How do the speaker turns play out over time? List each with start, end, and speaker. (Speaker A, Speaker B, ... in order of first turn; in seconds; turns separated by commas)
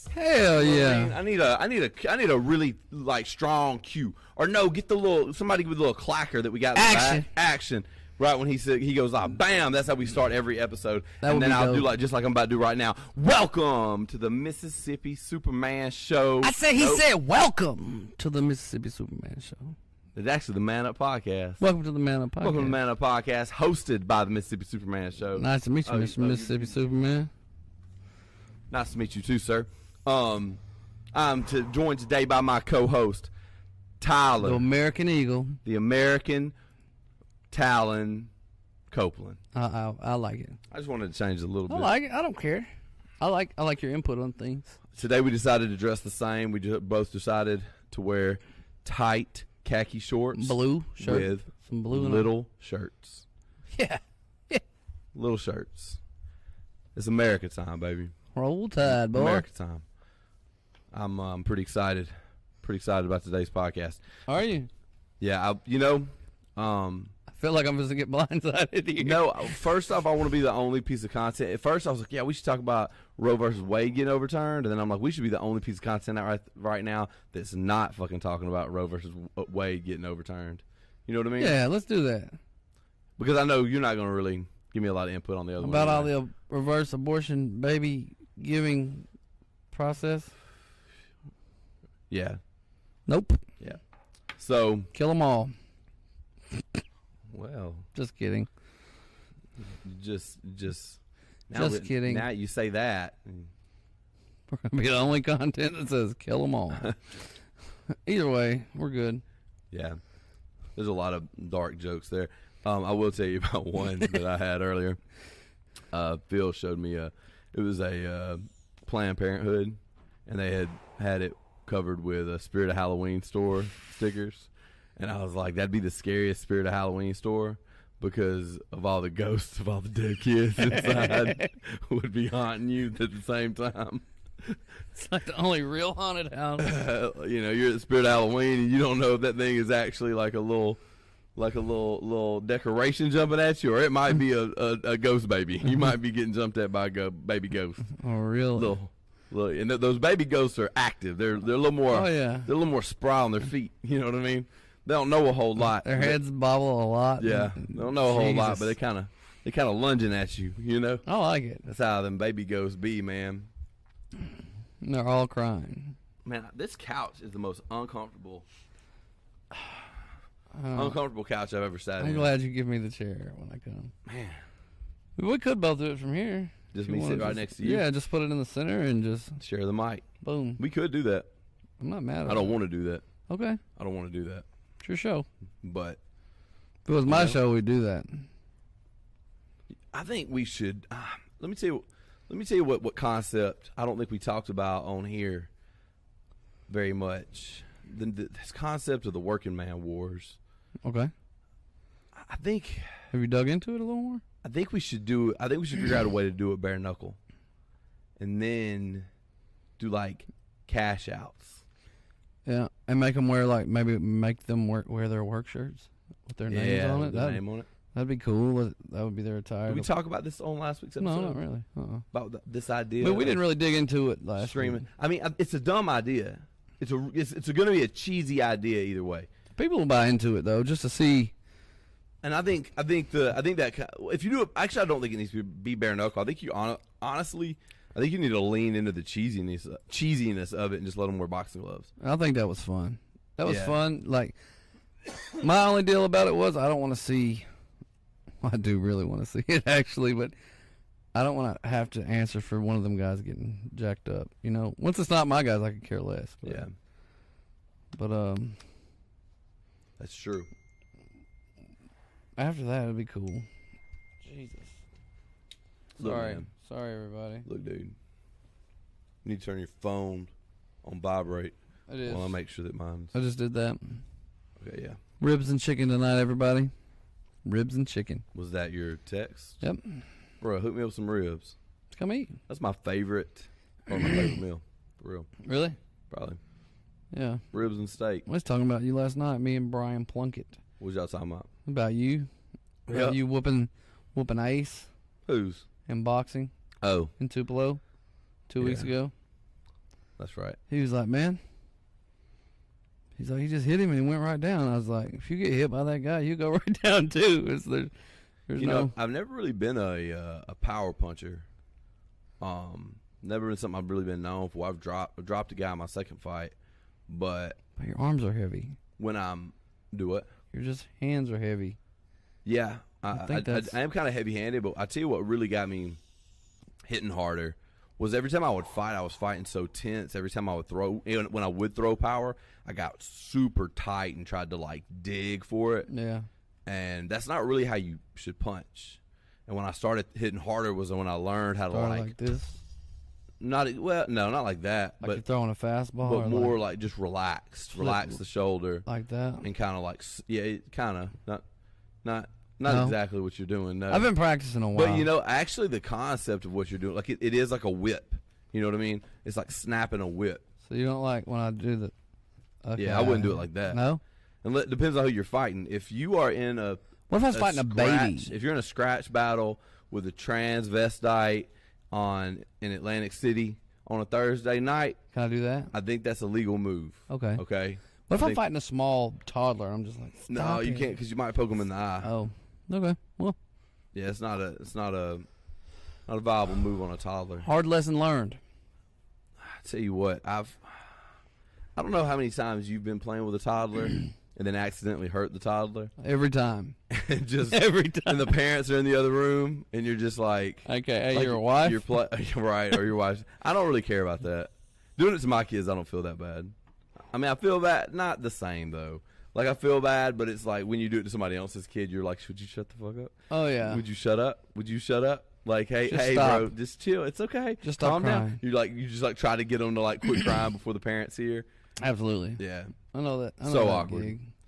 Speaker A: 0.1-1.1, Speaker B: 0.5-17.0, Speaker A: 6.8-7.3, Speaker A: 11.2-11.9, Speaker A: 16.4-19.8, Speaker B: 20.1-21.6, Speaker A: 21.6-22.8, Speaker B: 22.4-26.8, Speaker A: 25.4-27.3, Speaker B: 28.7-30.6, Speaker B: 31.1-33.3, Speaker B: 34.0-34.6, Speaker A: 34.4-35.6, Speaker B: 35.6-36.5, Speaker B: 37.5-38.3, Speaker B: 38.9-39.4, Speaker A: 39.5-40.6, Speaker B: 40.7-41.9, Speaker A: 41.7-42.7, Speaker A: 43.2-44.8, Speaker B: 44.9-53.2, Speaker A: 50.4-52.3, Speaker A: 53.7-54.6, Speaker B: 55.1-56.0, Speaker B: 57.0-58.1, Speaker A: 58.3-59.5, Speaker B: 58.9-59.8, Speaker B: 60.9-62.1, Speaker B: 62.6-64.0, Speaker A: 64.3-64.7, Speaker B: 65.2-67.1, Speaker A: 67.3-69.6, Speaker B: 69.0-81.6, Speaker A: 81.4-82.4, Speaker B: 83.2-86.1, Speaker A: 85.6-89.1, Speaker A: 89.7-90.3, Speaker B: 92.1-92.4, Speaker A: 93.1-93.4, Speaker B: 94.4-94.9, Speaker A: 94.9-95.5, Speaker B: 97.3-97.9, Speaker A: 98.0-98.5, Speaker B: 99.6-103.5, Speaker A: 101.5-102.3, Speaker A: 104.5-107.0, Speaker A: 107.9-109.2, Speaker B: 109.7-110.0, Speaker B: 110.8-115.0, Speaker B: 115.9-134.6, Speaker A: 130.6-131.5, Speaker A: 134.9-136.7, Speaker B: 136.6-140.8, Speaker B: 141.4-147.9, Speaker A: 147.9-148.8, Speaker B: 148.6-156.2, Speaker A: 151.9-152.5, Speaker A: 155.8-158.7, Speaker B: 157.2-161.1, Speaker A: 161.1-161.7, Speaker B: 161.7-163.5, Speaker A: 164.8-166.0, Speaker B: 166.2-168.4, Speaker A: 170.5-171.0, Speaker B: 170.7-172.3, Speaker A: 172.0-173.9, Speaker B: 174.1-174.4, Speaker A: 175.2-179.4, Speaker B: 176.7-177.9, Speaker B: 179.4-180.1, Speaker A: 180.2-180.6, Speaker B: 180.6-181.3, Speaker A: 181.8-182.6, Speaker B: 182.3-183.1, Speaker A: 183.3-183.6, Speaker B: 183.8-184.4, Speaker A: 184.8-185.3, Speaker B: 185.6-186.0, Speaker A: 186.8-188.3, Speaker B: 187.1-187.4, Speaker B: 189.9-195.5, Speaker B: 196.7-200.4, Speaker A: 200.8-201.1, Speaker B: 202.1-202.9, Speaker A: 203.1-204.2, Speaker B: 204.4-207.2, Speaker B: 208.2-209.1, Speaker B: 209.8-211.6, Speaker A: 212.5-217.4, Speaker B: 216.5-217.7, Speaker A: 217.9-219.9, Speaker B: 219.7-221.4, Speaker A: 221.0-222.0, Speaker B: 222.1-223.4, Speaker A: 223.0-224.9, Speaker B: 224.4-229.3, Speaker A: 229.6-231.3, Speaker B: 232.2-241.9, Speaker A: 242.0-244.4, Speaker B: 243.4-243.8, Speaker A: 245.4-247.5, Speaker A: 248.4-250.3, Speaker A: 251.1-256.6, Speaker B: 256.4-256.7, Speaker A: 257.9-258.6, Speaker B: 260.0-260.5, Speaker A: 262.4-263.5, Speaker A: 264.2-264.8, Speaker A: 266.0-267.5, Speaker B: 266.0-266.5, Speaker B: 267.5-267.9, Speaker B: 269.2-270.3, Speaker B: 270.8-273.2, Speaker A: 271.9-272.4, Speaker A: 273.1-274.0, Speaker B: 274.6-275.0, Speaker A: 275.2-276.7, Speaker A: 277.4-278.2, Speaker B: 278.3-279.6, Speaker A: 279.6-280.0, Speaker B: 280.4-281.6, Speaker A: 281.9-282.4, Speaker B: 282.5-285.3, Speaker A: 285.4-285.8, Speaker B: 286.1-286.4, Speaker A: 287.1-287.4, Speaker B: 287.5-288.3, Speaker A: 288.3-290.6, Speaker B: 290.8-291.5, Speaker A: 291.7-292.3, Speaker B: 292.9-293.2, Speaker A: 292.9-294.9, Speaker B: 295.3-295.7, Speaker A: 295.9-296.5, Speaker B: 296.8-297.1, Speaker A: 297.2-297.8, Speaker A: 298.5-299.1, Speaker B: 298.6-298.9, Speaker B: 300.2-300.6, Speaker A: 300.7-301.4, Speaker A: 303.2-307.9, Speaker A: 308.5-308.9, Speaker B: 308.6-311.5, Speaker B: 312.4-316.6, Speaker B: 317.1-317.6, Speaker A: 317.8-318.8, Speaker B: 319.0-320.3, Speaker A: 320.5-321.8, Speaker B: 322.4-326.0, Speaker A: 323.1-323.8, Speaker B: 326.9-335.9, Speaker A: 335.9-336.3, Speaker B: 336.7-342.1, Speaker A: 341.7-342.6, Speaker B: 343.4-345.2, Speaker A: 345.0-346.6, Speaker B: 346.0-348.9, Speaker A: 347.8-348.1, Speaker A: 348.9-349.4, Speaker B: 349.4-351.4, Speaker B: 352.0-354.1, Speaker A: 352.6-353.0, Speaker A: 353.9-355.1, Speaker B: 354.7-360.4, Speaker A: 360.7-361.9, Speaker A: 362.6-364.0, Speaker B: 362.8-363.8, Speaker B: 364.4-375.0, Speaker A: 367.1-368.3, Speaker A: 375.1-375.7, Speaker B: 375.7-378.4, Speaker A: 377.1-377.4, Speaker A: 378.1-380.9, Speaker B: 380.3-382.1, Speaker A: 382.0-383.4, Speaker B: 383.9-385.3, Speaker B: 386.1-387.5, Speaker A: 387.4-388.4, Speaker B: 389.4-390.9, Speaker B: 391.8-395.9, Speaker A: 396.0-396.8, Speaker B: 396.9-406.5, Speaker A: 397.5-398.4, Speaker A: 400.7-401.8, Speaker B: 407.1-421.5, Speaker A: 413.3-413.8, Speaker A: 415.9-416.5, Speaker A: 417.6-418.4, Speaker A: 421.8-424.3, Speaker B: 422.4-422.8, Speaker B: 423.4-424.2